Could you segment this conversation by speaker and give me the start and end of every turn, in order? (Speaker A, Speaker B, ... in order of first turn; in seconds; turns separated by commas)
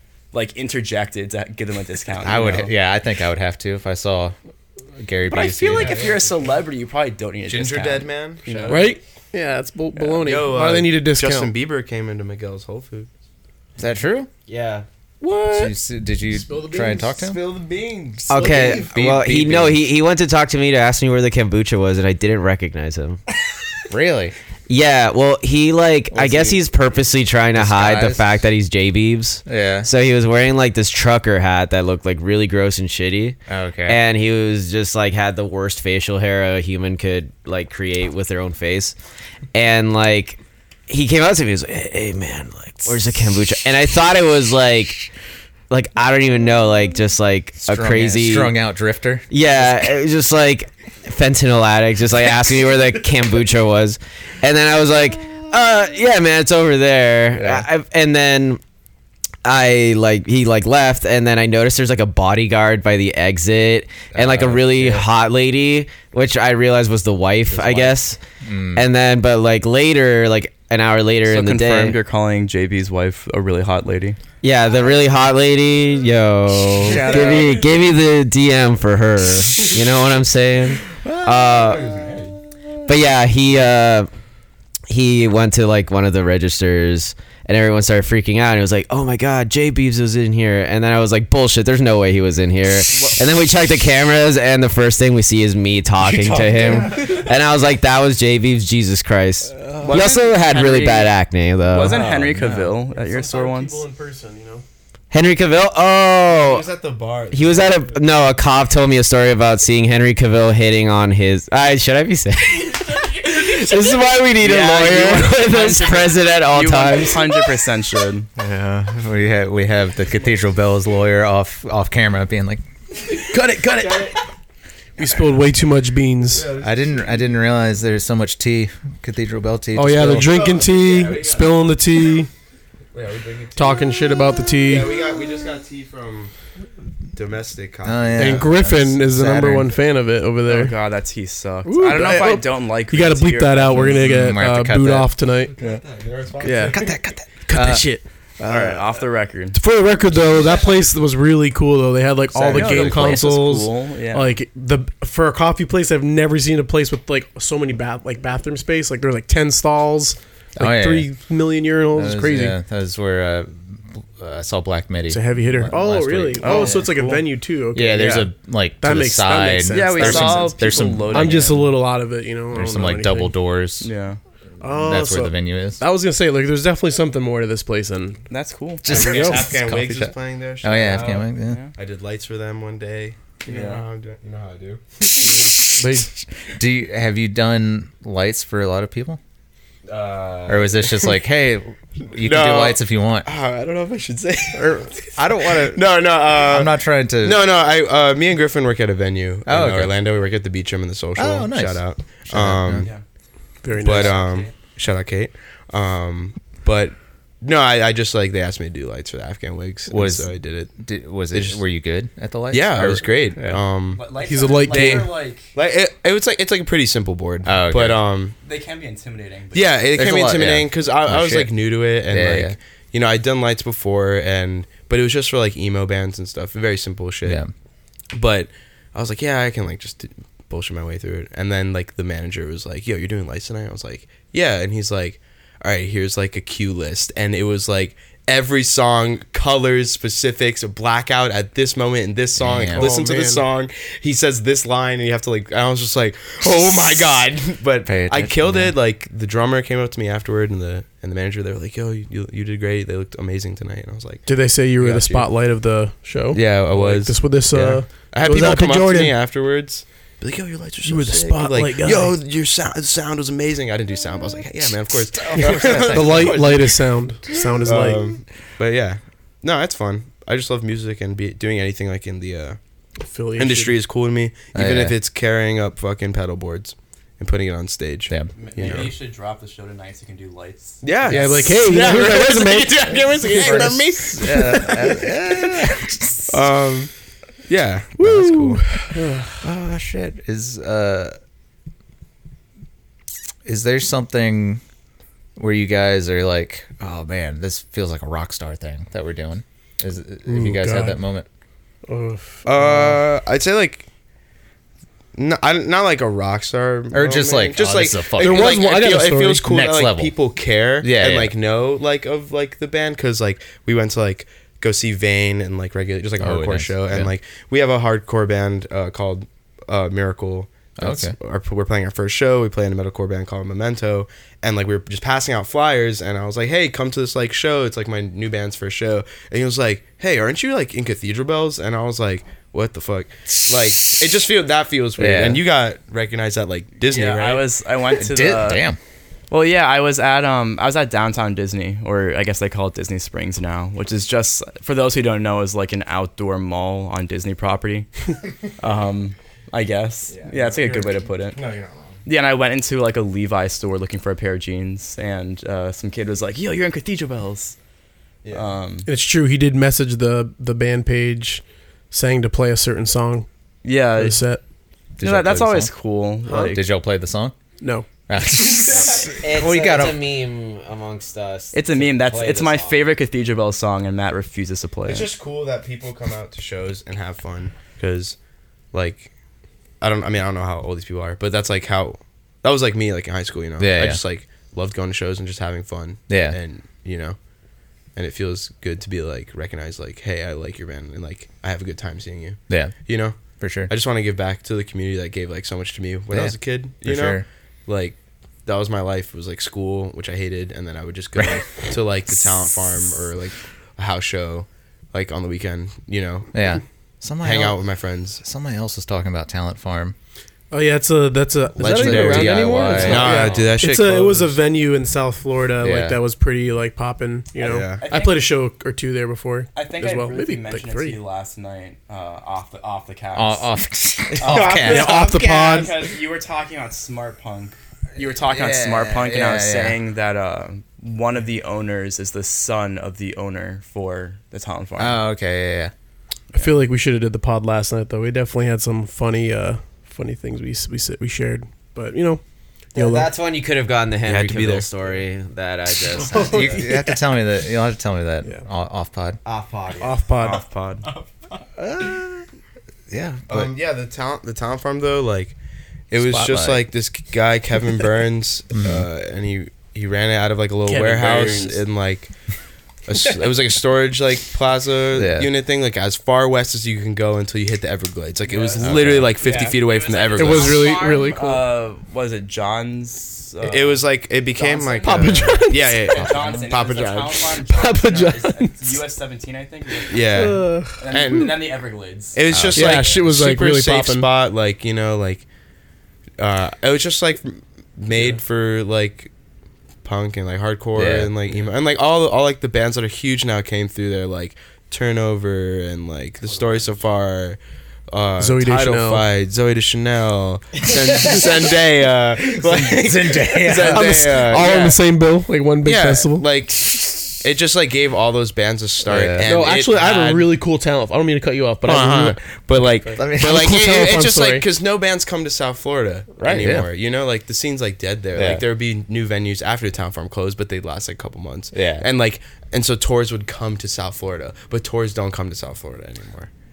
Speaker A: 0.3-2.7, Speaker B: 2.2-4.3, Speaker B: 5.0-6.1, Speaker A: 5.3-8.9, Speaker C: 5.7-6.5, Speaker C: 7.5-8.9, Speaker D: 8.7-11.5, Speaker C: 10.1-13.1, Speaker B: 13.8-14.3, Speaker E: 14.5-14.9, Speaker D: 15.2-15.7, Speaker B: 15.5-17.4, Speaker C: 16.5-19.1, Speaker B: 18.3-19.8, Speaker E: 18.3-23.2, Speaker B: 23.9-24.3, Speaker E: 24.7-38.9, Speaker B: 26.1-26.6, Speaker B: 27.5-28.4, Speaker B: 29.4-29.9, Speaker B: 33.5-34.0, Speaker E: 39.5-45.1, Speaker E: 45.7-48.5, Speaker B: 47.6-49.4, Speaker E: 49.3-58.6, Speaker B: 57.3-57.7, Speaker E: 59.4-68.2, Speaker B: 64.1-65.0, Speaker B: 68.4-68.9, Speaker E: 68.7-72.0, Speaker A: 71.3-74.2, Speaker E: 74.4-81.9, Speaker B: 76.9-77.5, Speaker A: 76.9-77.6, Speaker B: 81.0-81.4, Speaker C: 81.5-82.3, Speaker E: 82.8-84.1, Speaker E: 84.9-102.0, Speaker A: 92.9-93.2, Speaker D: 96.4-96.8, Speaker A: 99.8-101.1, Speaker A: 101.7-103.8, Speaker B: 101.9-102.7, Speaker D: 102.9-104.6, Speaker E: 105.1-106.6, Speaker C: 106.2-108.0, Speaker E: 107.3-117.3, Speaker A: 114.4-118.3, Speaker B: 118.4-122.6, Speaker D: 123.2-124.2, Speaker E: 123.8-124.1, Speaker D: 125.0-126.5, Speaker C: 126.3-127.4, Speaker B: 126.6-130.4, Speaker D: 129.7-132.3, Speaker C: 130.2-131.8, Speaker C: 132.9-133.9, Speaker D: 133.5-134.9, Speaker C: 134.6-136.3, Speaker C: 137.1-138.5, Speaker B: 137.8-139.7, Speaker D: 138.2-140.7, Speaker A: 140.4-144.0, Speaker D: 141.6-145.5, Speaker B: 143.7-145.1, Speaker C: 145.4-146.9, Speaker D: 146.4-146.8, Speaker B: 146.7-147.9, Speaker D: 147.4-148.0, Speaker B: 148.4-148.8, Speaker A: 148.4-149.6, Speaker D: 149.5-162.6, Speaker C: 150.2-150.7, Speaker B: 152.3-153.2, Speaker A: 152.5-154.3, Speaker B: 160.6-161.1, Speaker B: 161.9-166.9, Speaker D: 165.1-173.3, Speaker A: 166.4-167.2, Speaker B: 167.7-171.7, Speaker A: 169.7-171.5, Speaker B: 172.5-173.9, Speaker A: 173.8-174.2, Speaker D: 174.6-178.2, Speaker B: 174.7-175.8, Speaker A: 178.3-179.0, Speaker B: 178.8-181.6, Speaker D: 178.8-179.5, Speaker C: 178.9-185.0, Speaker A: 183.4-183.8, Speaker D: 185.2-186.1, Speaker B: 186.5-189.2, Speaker C: 189.8-191.1, Speaker B: 190.5-193.3, Speaker C: 192.2-202.9, Speaker D: 194.6-194.8, Speaker B: 195.1-197.4, Speaker B: 199.4-199.9, Speaker B: 201.2-202.9, Speaker D: 203.6-204.2, Speaker A: 203.7-204.5, Speaker C: 203.8-210.7, Speaker B: 209.9-213.6, Speaker C: 211.3-211.6, Speaker C: 212.5-214.1, Speaker A: 213.9-215.5, Speaker D: 214.2-215.1, Speaker C: 214.7-218.3, Speaker B: 217.4-218.0, Speaker A: 218.4-219.8, Speaker C: 219.5-227.4, Speaker B: 219.9-222.6, Speaker B: 227.2-227.5, Speaker C: 228.1-255.3, Speaker B: 242.4-242.9, Speaker D: 242.7-243.4, Speaker B: 247.8-248.7, Speaker D: 254.2-259.1, Speaker C: 256.3-266.8, Speaker D: 260.8-262.1, Speaker B: 265.1-266.5, Speaker D: 265.3-268.1, Speaker C: 267.6-272.6, Speaker D: 273.1-273.8, Speaker C: 273.4-278.9, Speaker B: 274.5-275.0, Speaker B: 278.1-278.8, Speaker A: 278.4-282.1, Speaker C: 280.8-284.8, Speaker D: 281.0-285.0, Speaker B: 283.4-286.2, Speaker C: 286.3-286.9, Speaker C: 287.5-288.6, Speaker D: 288.0-289.4, Speaker B: 289.4-291.2, Speaker B: 293.4-294.6, Speaker B: 295.4-301.3, Speaker D: 300.2-301.0, Speaker D: 301.9-303.0, Speaker C: 302.4-303.9, Speaker C: 305.1-337.4, Speaker B: 306.9-308.6, Speaker D: 308.2-309.5, Speaker B: 309.4-310.2, Speaker B: 310.8-311.3, Speaker B: 316.2-317.1, Speaker B: 320.8-321.1, Speaker B: 335.0-335.4, Speaker A: 336.9-338.6, Speaker B: 338.0-338.8, Speaker A: 339.3-347.9, Speaker A: 348.6-351.4, Speaker C: 350.1-352.0, Speaker A: 352.0-357.5, Speaker A: 358.3-358.9, Speaker D: 358.9-363.2, Speaker A: 363.6-364.2, Speaker D: 363.9-364.4, Speaker B: 365.0-365.7, Speaker A: 365.0-366.6, Speaker D: 366.2-366.6, Speaker B: 366.3-367.3, Speaker D: 367.6-367.9, Speaker B: 368.1-370.0, Speaker C: 368.7-369.1, Speaker E: 369.2-372.8, Speaker A: 371.5-375.1, Speaker C: 374.9-378.2, Speaker C: 378.7-379.1, Speaker C: 379.8-387.2, Speaker B: 383.6-384.0, Speaker B: 386.1-386.4, Speaker C: 387.9-406.3, Speaker B: 392.5-393.7, Speaker B: 396.1-397.2, Speaker B: 406.3-407.6, Speaker C: 407.2-408.2, Speaker B: 408.2-409.9, Speaker D: 410.5-421.0, Speaker B: 411.6-413.3, Speaker C: 411.6-414.3, Speaker A: 412.8-413.5, Speaker B: 415.6-416.0, Speaker C: 417.4-417.8, Speaker A: 417.7-418.2, Speaker A: 419.5-423.5, Speaker B: 423.1-425.0, Speaker A: 424.2-435.0, Speaker C: 424.3-424.9, Speaker D: 424.3-425.8, Speaker B: 428.1-429.8, Speaker B: 434.8-435.7, Speaker D: 436.3-442.2, Speaker D: 442.7-443.1, Speaker E: 442.7-446.6, Speaker C: 444.0-444.7, Speaker D: 445.9-447.0, Speaker B: 446.1-449.2, Speaker E: 449.2-449.9, Speaker D: 449.8-450.4, Speaker A: 450.2-451.1, Speaker B: 451.6-452.2, Speaker B: 452.9-453.5, Speaker C: 453.3-455.3, Speaker C: 455.9-462.1, Speaker B: 456.0-456.6, Speaker B: 458.5-458.9, Speaker D: 460.6-461.6, Speaker C: 462.9-470.6, Speaker B: 464.9-465.3, Speaker A: 468.2-482.8, Speaker B: 468.6-469.1, Speaker D: 470.1-471.4, Speaker E: 470.5-471.2, Speaker C: 473.4-477.2, Speaker D: 474.8-475.9, Speaker D: 477.4-478.8, Speaker C: 479.9-481.6, Speaker D: 480.0-481.3, Speaker C: 482.1-485.2, Speaker B: 482.3-482.8, Speaker D: 482.5-484.1, Speaker C: 486.2-489.1, Speaker C: 489.8-497.4, Speaker B: 490.8-491.1, Speaker C: 497.9-504.8, Speaker D: 498.2-499.1, Speaker E: 500.8-501.3, Speaker B: 502.4-504.2, Speaker D: 503.6-506.2, Speaker A: 504.3-504.7, Speaker C: 505.6-510.3, Speaker B: 508.9-509.3, Speaker D: 509.2-514.5, Speaker C: 511.6-526.3, Speaker B: 513.0-513.5, Speaker B: 516.2-516.7, Speaker B: 518.1-518.4, Speaker B: 521.5-521.9